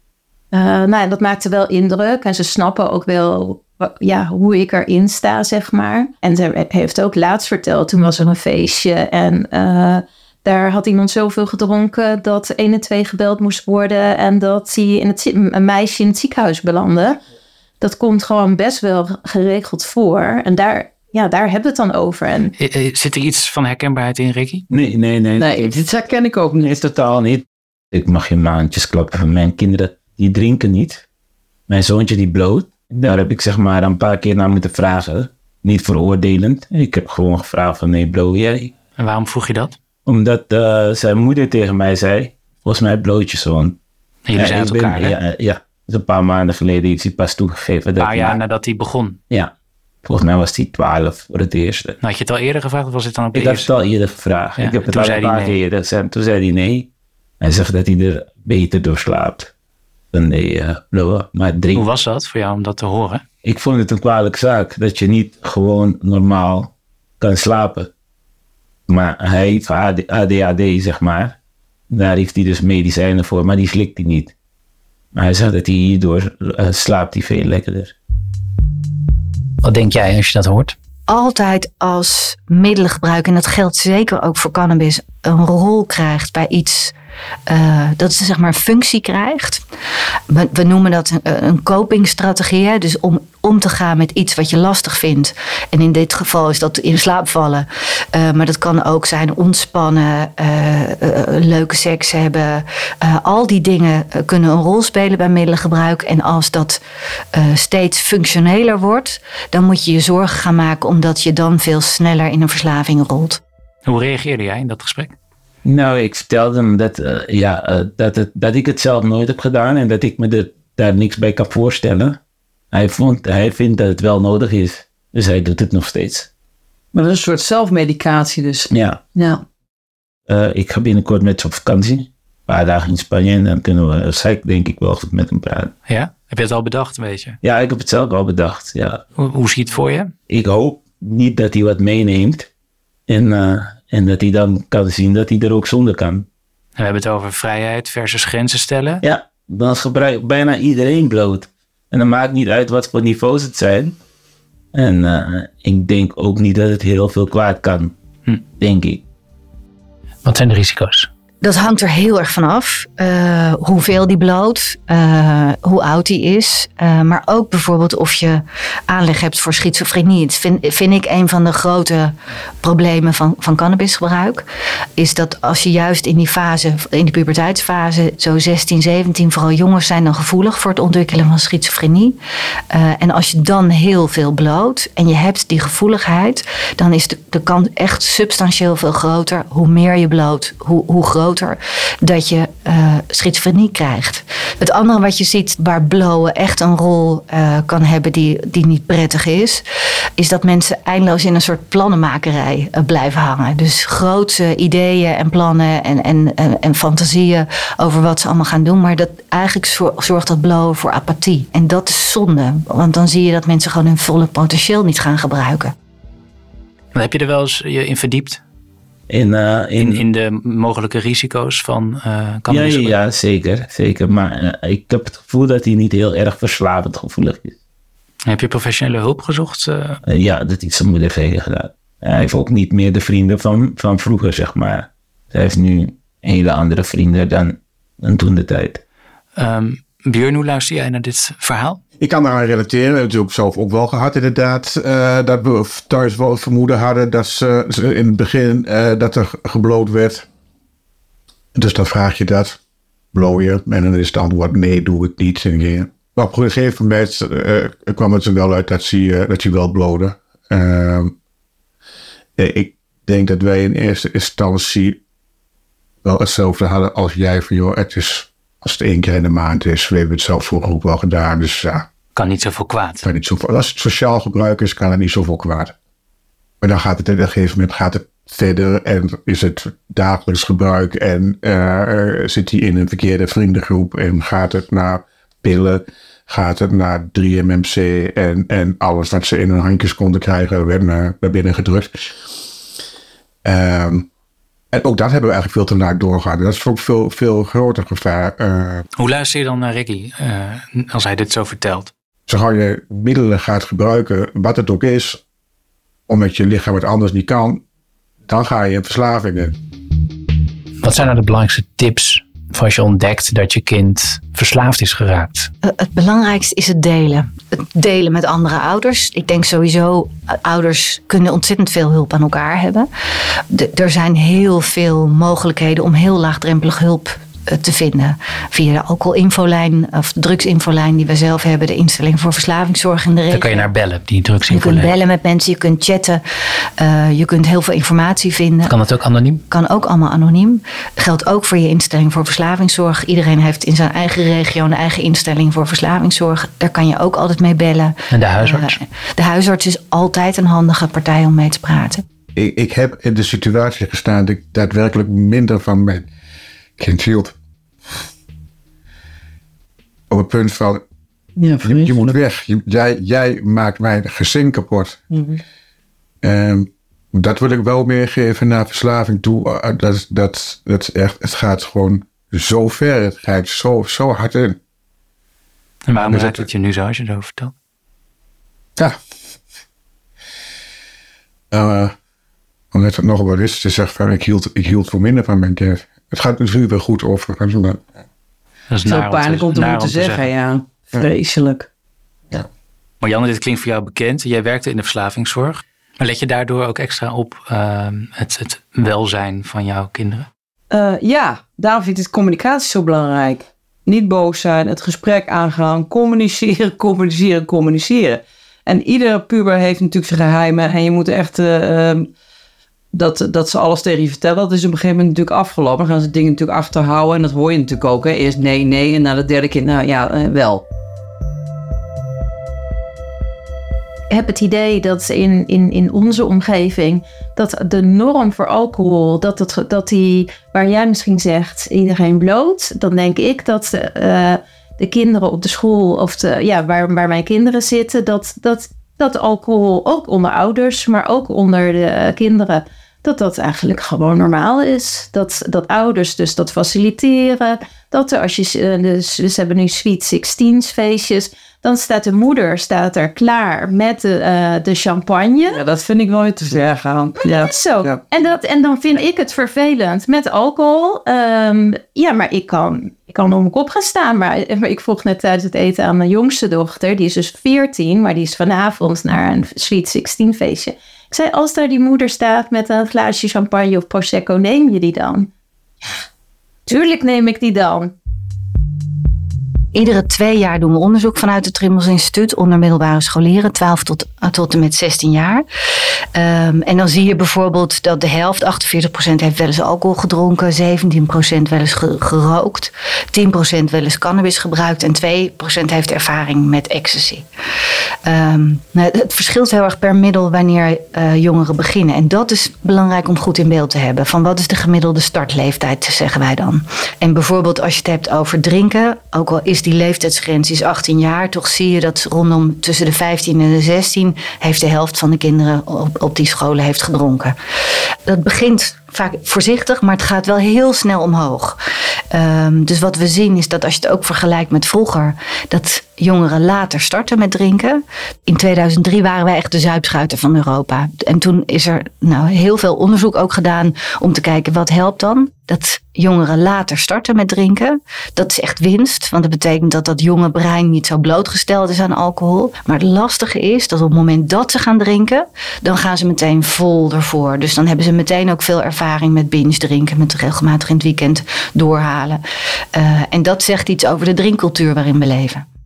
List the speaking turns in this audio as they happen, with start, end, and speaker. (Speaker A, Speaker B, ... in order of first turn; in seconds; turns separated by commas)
Speaker A: 0.5-17.2, Speaker A: 17.8-22.5, Speaker B: 22.6-24.7, Speaker C: 24.7-25.6, Speaker D: 25.4-26.8, Speaker C: 26.7-31.0, Speaker C: 31.7-38.7, Speaker B: 39.0-39.8, Speaker C: 40.0-43.8, Speaker B: 44.3-45.1, Speaker C: 44.4-48.4, Speaker B: 48.0-49.2, Speaker C: 50.0-52.0, Speaker B: 52.0-53.7, Speaker C: 53.3-56.9, Speaker B: 54.6-55.6, Speaker C: 57.4-59.5, Speaker C: 60.1-61.8, Speaker B: 61.8-63.2, Speaker C: 63.4-67.9, Speaker C: 68.9-71.4, Speaker C: 71.9-74.3, Speaker C: 75.1-77.9, Speaker B: 79.6-80.8, Speaker E: 81.1-86.9, Speaker E: 87.5-89.6, Speaker E: 90.3-106.8, Speaker E: 107.3-113.4, Speaker B: 113.8-115.1, Speaker C: 115.6-122.2, Speaker C: 122.7-126.3, Speaker D: 126.9-129.4, Speaker C: 128.7-129.0, Speaker C: 130.3-135.7, Speaker B: 135.9-137.4, Speaker C: 137.4-139.0, Speaker B: 139.2-140.1, Speaker C: 140.3-142.5, Speaker C: 143.1-146.2, Speaker B: 146.8-149.0, Speaker C: 149.0-153.9, Speaker C: 154.7-157.9, Speaker C: 158.6-159.0, Speaker B: 160.2-161.1, Speaker E: 161.4-174.4, Speaker E: 174.9-182.2, Speaker E: 182.7-199.6, Speaker E: 200.2-215.7, Speaker B: 216.9-218.4, Speaker C: 219.1-220.0, Speaker B: 219.8-222.9, Speaker C: 222.5-227.6, Speaker B: 228.3-230.0, Speaker C: 230.1-238.8, Speaker B: 239.3-241.8, Speaker F: 242.0-250.2, Speaker F: 251.5-252.6, Speaker F: 253.1-261.1, Speaker F: 262.4-265.0, Speaker F: 266.0-271.9, Speaker B: 272.1-273.1, Speaker F: 273.0-275.7, Speaker F: 276.6-291.9, Speaker F: 293.4-294.1, Speaker F: 294.7-298.8, Speaker B: 299.0-301.9, Speaker F: 302.3-305.2, Speaker F: 306.1-307.6, Speaker F: 308.3-309.6, Speaker B: 310.8-315.5, Speaker E: 315.6-333.7, Speaker B: 333.3-334.9, Speaker E: 334.5-338.7, Speaker B: 338.6-339.4, Speaker E: 339.5-352.1, Speaker B: 348.1-348.8, Speaker F: 352.4-356.1, Speaker F: 356.8-357.4, Speaker F: 360.1-360.8, Speaker D: 361.4-362.1, Speaker F: 361.6-365.0, Speaker D: 365.1-365.4, Speaker F: 366.2-374.6, Speaker B: 375.9-377.5, Speaker F: 376.1-376.3, Speaker F: 381.5-381.9, Speaker F: 382.7-387.8, Speaker B: 388.7-390.3, Speaker D: 388.8-391.7, Speaker B: 393.0-400.3, Speaker D: 400.7-412.1, Speaker D: 412.9-420.6, Speaker A: 424.1-455.6, Speaker D: 455.5-458.0, Speaker A: 457.2-475.3, Speaker A: 476.7-477.9, Speaker E: 479.7-485.4, Speaker E: 486.1-497.2, Speaker E: 498.0-517.4, Speaker E: 518.1-521.6, Speaker E: 522.1-552.2, Speaker E: 552.7-555.4